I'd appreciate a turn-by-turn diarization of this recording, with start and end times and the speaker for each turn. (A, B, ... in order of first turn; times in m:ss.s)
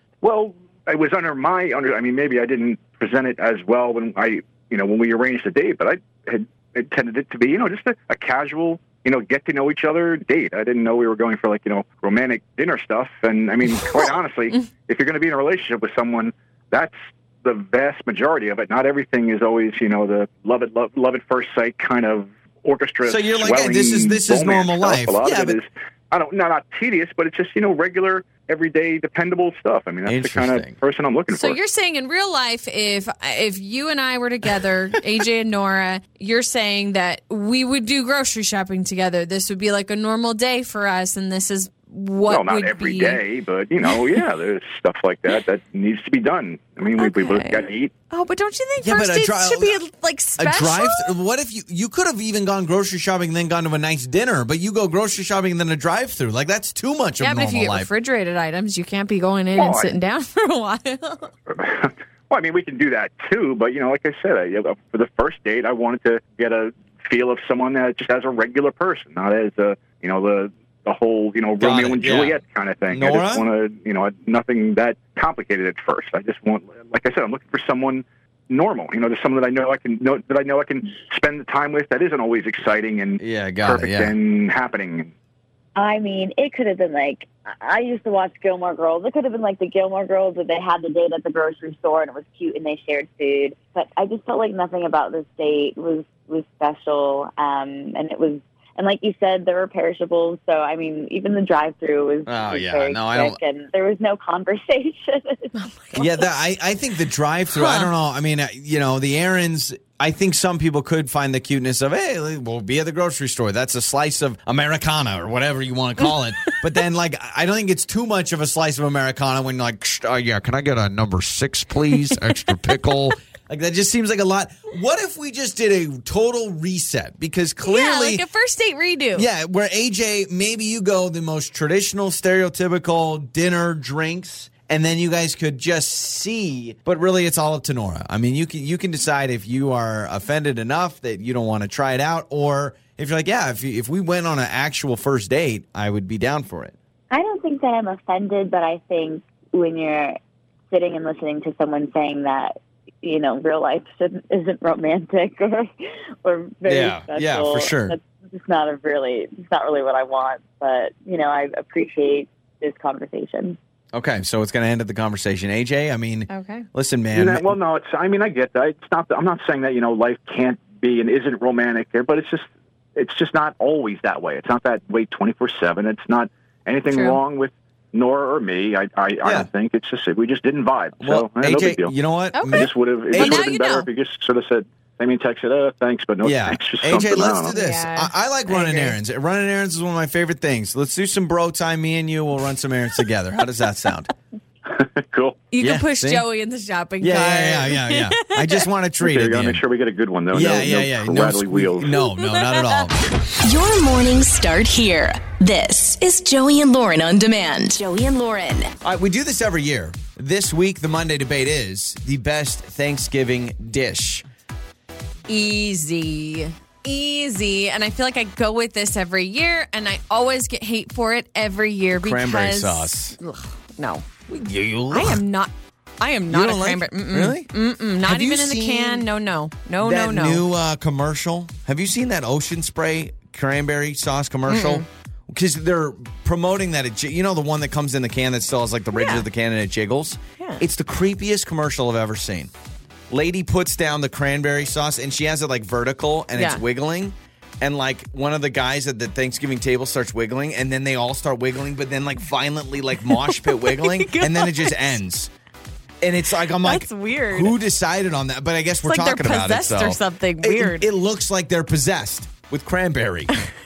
0:00.2-0:31.6 A
0:13.7-0:14.6 B
0:23.0-0:25.6 C
0:30.0-0:30.8 C
0:31.3-0:43.2 B
0:42.3-0:47.9 A
0:43.9-0:44.2 B
0:47.0-0:51.1 B
0:48.8-0:49.8 C
0:50.4-0:57.9 C
0:57.2-1:01.3 B
0:59.6-0:59.9 A
1:01.5-1:25.1 A
1:11.6-1:12.4 C
1:12.9-1:13.4 C
1:23.2-1:24.1 C
1:25.8-1:45.5 D
1:42.2-1:43.4 C
1:45.5-1:46.2 B
1:46.0-2:08.2 C
1:47.5-1:47.9 B
2:07.6-2:09.3 B
2:09.1-2:26.7 C
2:27.1-2:30.2 D
2:30.7-2:43.6 D
2:36.6-2:38.0 C
2:43.9-2:47.5 C
2:46.3-2:46.6 B
2:47.1-3:01.9 A
2:56.9-2:57.2 B
2:59.2-2:59.5 C
3:01.0-3:03.4 C
3:02.3-3:03.9 B
3:02.5-3:07.5 A
3:06.2-3:14.1 C
3:07.5-3:09.0 B
3:14.7-3:15.5 A
3:15.5-3:18.6 B
3:15.6-3:16.2 C
3:17.0-3:19.6 C
3:19.0-3:21.9 A
3:20.3-3:23.0 C
3:21.9-3:22.9 B
3:23.4-3:28.7 E
3:28.8-3:34.2 C
3:35.3-3:44.0 B
3:42.0-3:43.2 C
3:44.3-3:45.2 C
3:44.9-3:50.4 B
3:46.3-3:47.5 C
3:48.0-3:49.0 C
3:49.8-4:02.5 C
3:54.5-3:54.8 B
3:58.9-3:59.2 B
4:03.1-4:15.3 C
4:06.4-4:06.6 B
4:13.1-4:14.9 B
4:16.0-4:23.3 C
4:16.6-4:17.6 B
4:18.8-4:20.9 B